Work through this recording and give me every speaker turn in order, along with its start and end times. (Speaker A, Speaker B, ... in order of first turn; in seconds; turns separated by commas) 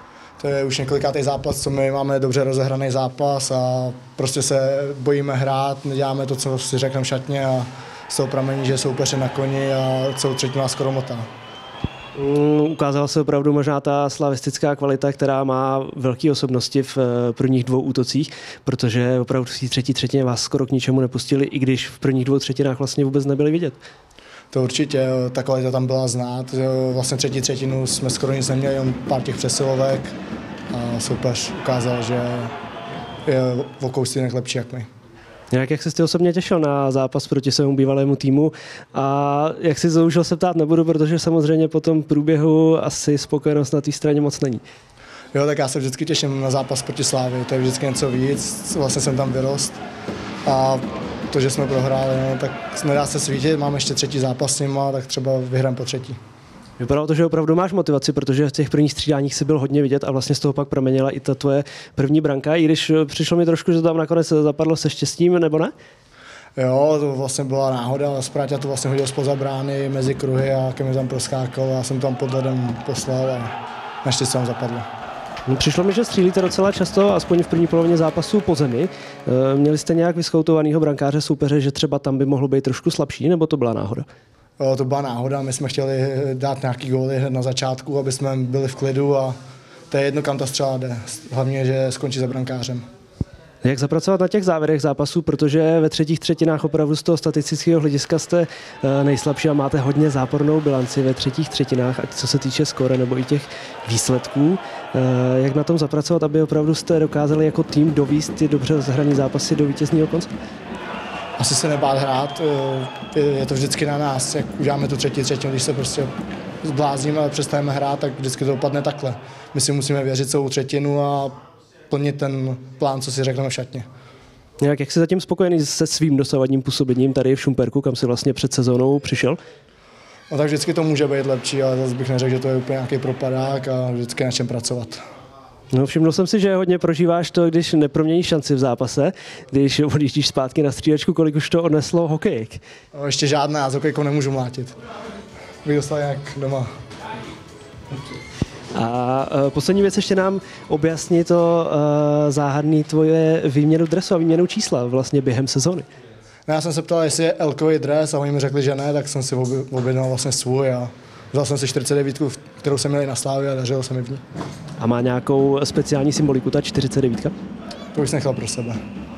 Speaker A: 0.4-11.2, Speaker B: 12.2-23.8, Speaker A: 24.5-30.1, Speaker A: 30.7-32.5, Speaker A: 33.2-34.9, Speaker B: 35.5-44.6, Speaker A: 45.3-49.8, Speaker A: 50.5-56.2, Speaker B: 56.8-65.7, Speaker A: 66.5-73.5, Speaker A: 74.0-74.8, Speaker B: 75.5-84.0, Speaker A: 84.6-89.4, Speaker A: 89.9-92.8, Speaker B: 93.6-110.3, Speaker A: 111.4-116.1, Speaker A: 116.6-121.3, Speaker A: 121.9-123.8, Speaker B: 124.6-129.4, Speaker A: 130.3-135.0, Speaker B: 135.7-142.6, Speaker A: 142.9-144.8, Speaker A: 145.6-146.7, Speaker B: 148.7-155.8, Speaker A: 156.5-164.2, Speaker B: 164.8-167.3, Speaker A: 167.9-168.8